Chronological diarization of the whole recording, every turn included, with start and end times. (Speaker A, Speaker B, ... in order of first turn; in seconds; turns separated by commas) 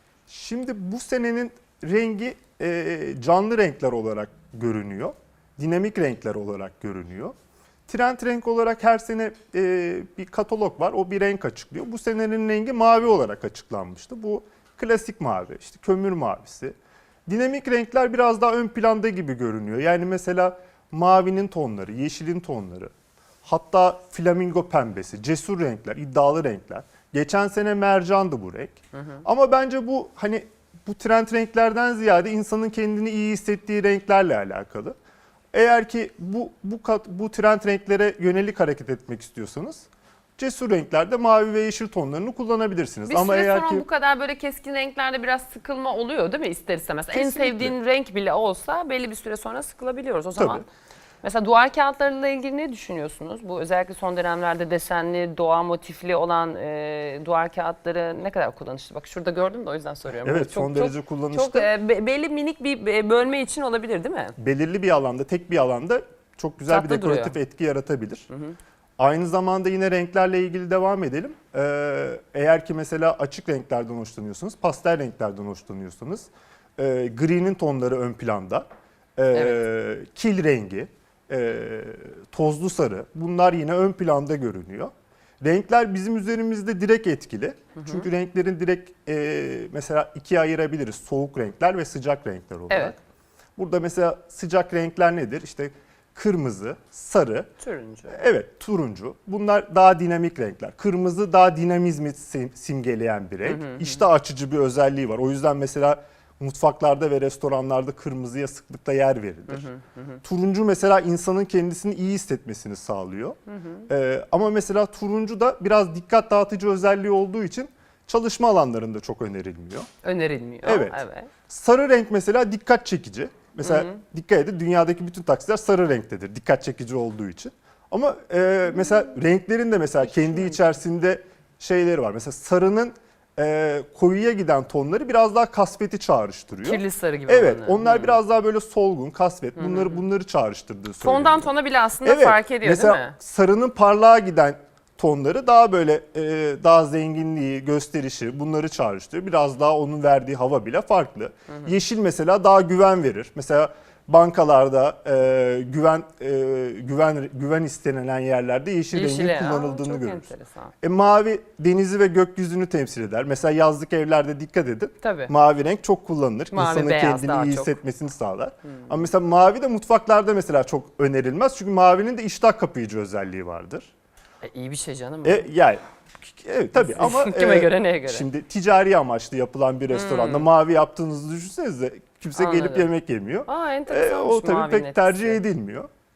Speaker A: 0.3-7.3, Speaker A: 7.9-16.7, Speaker A: 17.2-22.9, Speaker A: 23.4-35.0, Speaker B: 28.9-29.2, Speaker A: 35.5-39.9, Speaker A: 40.4-43.8, Speaker B: 43.1-50.6, Speaker A: 47.1-47.7, Speaker A: 50.4-50.6, Speaker B: 51.2-64.3, Speaker A: 60.2-61.7, Speaker A: 64.4-68.3, Speaker B: 66.7-67.4, Speaker B: 68.3-68.6, Speaker A: 69.0-78.7, Speaker A: 79.2-93.0, Speaker B: 79.3-79.6, Speaker B: 87.8-88.0, Speaker B: 92.7-92.9, Speaker A: 93.5-97.5, Speaker B: 97.6-98.2, Speaker A: 98.1-109.7, Speaker B: 103.4-104.0, Speaker B: 109.5-110.2, Speaker A: 110.2-113.4, Speaker B: 113.5-113.8, Speaker A: 113.9-119.9, Speaker B: 120.0-121.3, Speaker A: 120.6-141.5, Speaker B: 123.6-124.0, Speaker B: 130.2-130.5, Speaker B: 136.6-138.2, Speaker B: 139.6-140.0, Speaker B: 141.0-143.1, Speaker A: 142.0-160.3, Speaker B: 158.9-160.7, Speaker A: 160.8-173.9, Speaker B: 165.0-165.3, Speaker B: 166.5-167.8, Speaker B: 174.4-175.5, Speaker A: 175.2-185.9, Speaker B: 176.8-178.3, Speaker B: 179.9-180.5, Speaker B: 182.3-182.9, Speaker B: 183.5-185.4